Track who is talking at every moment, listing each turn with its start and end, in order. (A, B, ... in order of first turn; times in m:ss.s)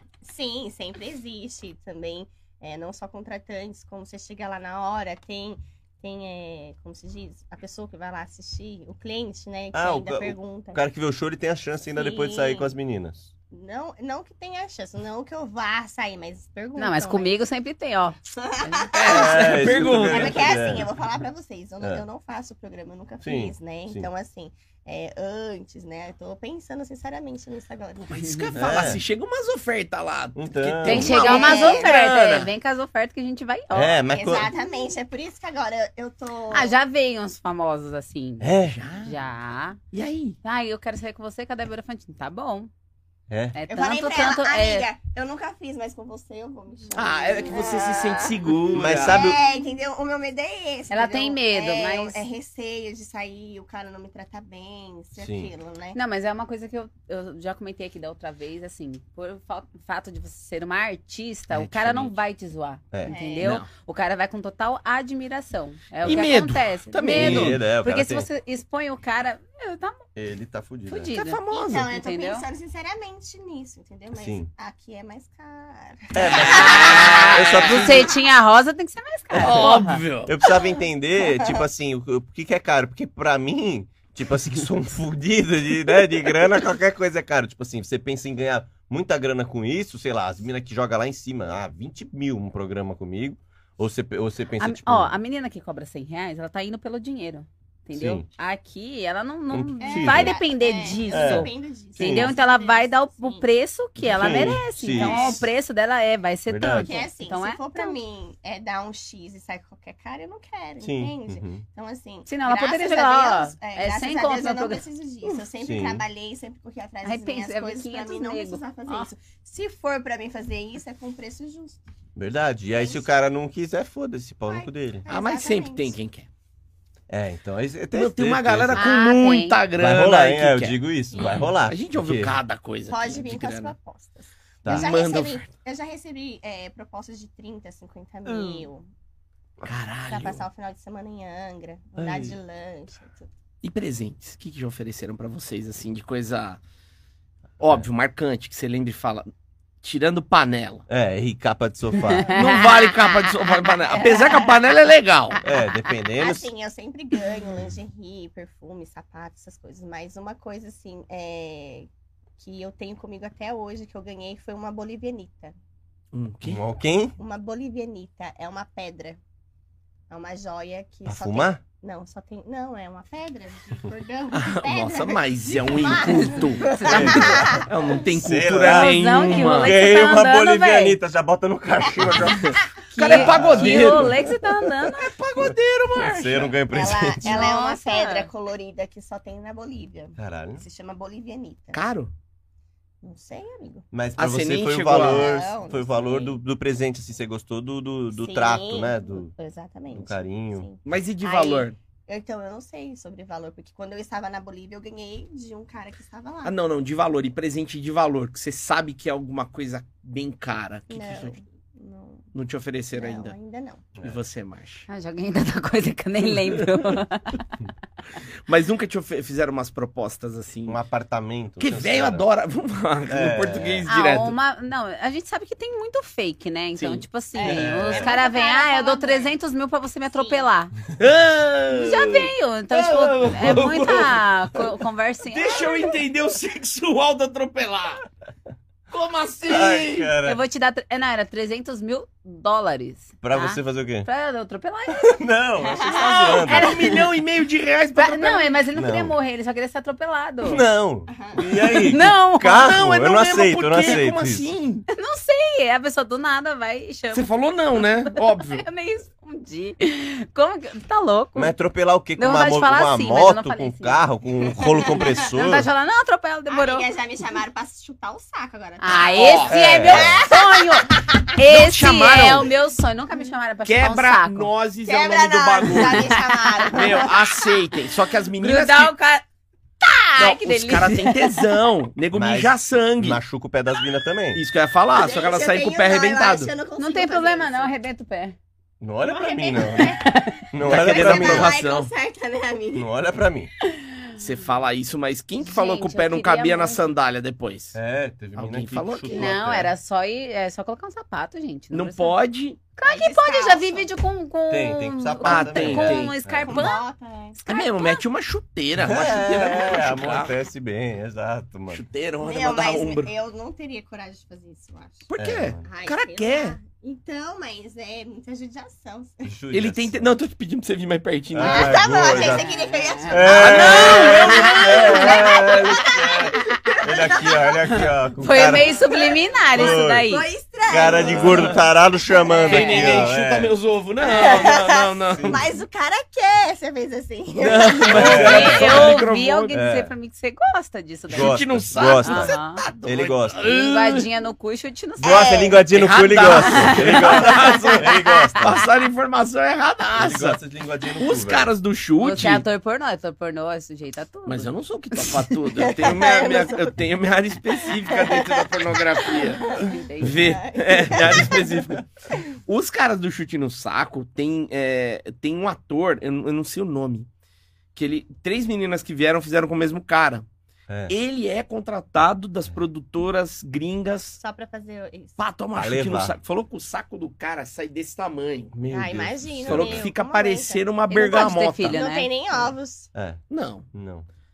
0:00.2-0:10.8 A
0:09.7-0:13.3 B
0:11.9-0:12.7 A
0:13.5-0:17.4 A
0:16.8-0:19.7 C
0:18.4-0:28.1 A
0:18.9-0:20.5 D
0:19.1-0:20.9 B
0:23.2-0:24.1 B
0:28.0-0:32.5 D
0:28.6-0:29.0 B
0:30.3-0:31.4 B
0:30.8-0:34.0 C
0:31.0-0:31.9 A
0:33.7-0:34.5 B
0:34.1-0:36.7 A
0:36.5-0:39.8 C
0:38.4-0:38.8 B
0:38.7-0:39.1 D
0:39.9-0:40.4 D
0:40.4-0:42.7 C
0:43.3-0:43.6 B
0:43.5-0:44.9 C
0:43.7-0:48.4 A
0:46.9-0:49.3 D
0:48.4-0:49.4 B
0:48.9-0:56.0 A
0:50.9-0:52.2 C
0:55.2-0:55.5 B
0:55.9-1:10.0 C
1:01.5-1:02.1 D
1:02.9-1:03.6 B
1:03.0-1:03.5 A
1:03.4-1:03.7 D
1:06.0-1:07.6 D
1:07.1-1:08.3 B
1:10.2-1:11.1 B
1:10.9-1:12.4 C
1:11.1-1:11.9 D
1:11.5-1:16.9 A
1:14.1-1:14.5 B
1:16.1-1:18.1 B
1:16.3-1:20.0 C
1:16.4-1:18.0 D
1:19.3-1:19.7 B
1:19.4-1:20.3 D
1:20.2-1:35.1 B
1:21.2-1:21.6 A
1:34.6-1:48.0 C
1:37.9-1:38.2 B
1:39.5-1:40.4 B
1:39.8-1:43.4 A
1:41.1-1:42.3 B
1:44.0-1:45.4 B
1:44.1-1:45.5 A
1:46.5-1:47.0 B
1:46.7-2:01.8 A
1:50.8-1:51.6 B
1:52.3-1:54.8 C
1:55.6-1:56.0 B
1:57.0-1:59.1 C
2:02.2-2:05.0 B
2:02.7-2:03.0 A
2:04.5-2:06.0 A
2:05.1-2:06.3 D
2:07.1-2:08.9 B
2:07.9-2:13.7 D
2:08.7-2:09.6 C
2:09.8-2:12.4 B
2:12.9-2:18.8 A
2:14.6-2:14.9 B
2:14.7-2:15.5 D
2:19.6-2:20.4 D
2:20.1-2:23.3 A
2:22.0-2:22.4 B
2:23.6-2:26.6 D
2:27.6-2:29.3 D
2:29.8-2:30.8 D
2:30.9-2:32.3 B
2:31.9-2:33.6 C
2:32.0-2:32.3 A
2:32.3-2:35.4 D
2:33.9-2:34.5 A
2:35.4-2:36.5 B
2:36.2-2:45.5 A
2:46.1-2:46.6 D
2:46.4-2:47.2 B
2:47.2-2:49.2 A
2:50.1-2:57.7 A
2:51.0-2:51.6 B
2:54.3-2:59.7 D
2:56.0-2:57.6 C
2:56.8-3:04.7 B
2:58.6-3:01.0 C
3:02.0-3:02.4 A
3:02.4-3:04.2 D
3:02.9-3:05.2 C
3:05.0-3:06.5 D
3:06.0-3:07.5 B
3:06.7-3:11.8 A
3:07.2-3:08.3 C
3:10.2-3:10.6 B
3:11.7-3:12.1 D
3:13.0-3:13.8 A
3:13.9-3:19.3 B
3:14.2-3:15.3 D
3:14.9-3:16.4 A
3:18.1-3:26.6 A
3:19.9-3:20.7 B
3:20.8-3:21.8 D
3:26.4-3:31.3 D
3:30.9-3:32.3 A
3:32.3-3:33.3 D
3:32.9-3:33.8 A
3:34.0-3:34.9 D
3:34.9-3:37.5 C
3:36.3-3:37.0 D
3:38.5-3:40.8 D
3:40.7-3:42.2 B
3:41.6-3:44.3 D
3:43.1-3:43.8 B
3:43.9-3:50.7 C
3:46.8-3:47.0 D
3:47.3-3:49.3 A
3:47.5-3:48.1 B
3:50.1-3:50.4 A
3:51.0-3:54.2 D
3:51.7-3:55.9 C
3:55.2-3:58.0 D
3:58.9-4:00.1 D
3:59.5-4:00.4 B
4:00.2-4:05.1 C
4:03.2-4:04.1 B
4:04.9-4:06.8 B
4:05.7-4:06.4 A
4:05.7-4:07.0 C
4:06.4-4:08.6 D
4:08.0-4:10.6 C
4:08.7-4:09.1 B
4:10.4-4:14.5 B
4:11.1-4:11.4 A
4:11.6-4:12.7 C
4:12.5-4:14.8 D
4:14.9-4:21.5 C
4:17.1-4:18.6 D
4:21.4-4:25.7 B
4:22.2-4:24.0 C
4:24.5-4:25.3 A
4:25.1-4:26.9 C
4:26.5-4:31.3 A
4:28.8-4:34.5 C
4:29.1-4:30.0 D
4:29.6-4:30.2 B
4:31.4-4:32.5 D
4:33.6-4:36.1 D
4:34.8-4:37.6 A
4:35.7-4:37.0 C
4:36.7-4:38.9 D
4:38.4-4:39.2 C
4:39.8-4:41.4 C
4:40.2-4:43.2 D
4:42.1-4:44.4 B
4:44.3-4:46.5 D
4:44.9-4:47.7 A
4:46.8-4:48.4 C
4:48.8-4:50.0 B
4:49.0-4:50.0 A
4:49.8-4:50.5 C
4:50.5-4:51.5 B
4:50.6-4:52.9 A
4:50.6-4:51.9 D
4:52.7-4:53.5 B
4:53.6-4:54.1 C
4:54.2-4:57.8 D
4:55.4-4:56.8 C
4:57.7-4:59.7 B
4:58.4-4:59.3 D
4:59.1-5:02.2 C
5:01.7-5:02.6 D
5:02.8-5:08.0 C
5:02.8-5:03.9 A
5:04.5-5:06.7 B
5:05.2-5:06.2 D
5:06.4-5:07.4 A
5:07.5-5:10.3 D
5:08.8-5:11.8 B
5:11.7-5:13.1 D
5:12.2-5:15.1 A
5:15.1-5:16.6 D
5:15.2-5:15.6 B
5:15.6-5:19.3 A
5:19.3-5:20.0 B
5:19.5-5:21.8 D
5:21.3-5:22.5 B
5:21.4-5:27.8 A
5:22.1-5:26.8 C
5:23.1-5:28.8 B
5:23.2-5:24.7 D
5:27.7-5:30.3 C
5:28.6-5:32.9 A
5:29.5-5:30.1 B
5:30.7-5:33.5 B
5:31.0-5:31.6 D
5:32.3-5:32.9 C
5:32.4-5:35.5 D
5:34.0-5:38.6 A
5:35.1-5:35.4 B
5:37.4-5:39.6 D
5:37.8-5:39.9 B
5:37.8-5:42.6 C
5:41.1-5:43.4 B
5:41.1-5:44.1 D
5:43.4-5:45.4 C
5:45.0-5:48.6 B
5:45.0-5:45.6 A
5:45.7-5:50.4 D
5:46.2-5:48.6 C
5:49.9-5:51.5 B
5:51.0-5:52.4 D
5:52.0-5:55.1 C
5:54.2-6:07.1 D
5:55.6-5:56.7 A
5:57.9-6:01.6 A
5:59.3-6:00.4 C
6:07.7-6:10.2 D
6:10.7-6:10.9 B
6:10.9-6:14.2 D
6:14.2-6:15.2 A
6:15.2-6:18.5 D
6:15.6-6:16.1 B
6:18.5-6:19.9 B
6:18.7-6:22.9 A
6:19.5-6:21.8 D
6:20.9-6:22.1 C
6:22.4-6:23.2 B
6:23.3-6:23.7 D
6:23.7-6:24.1 B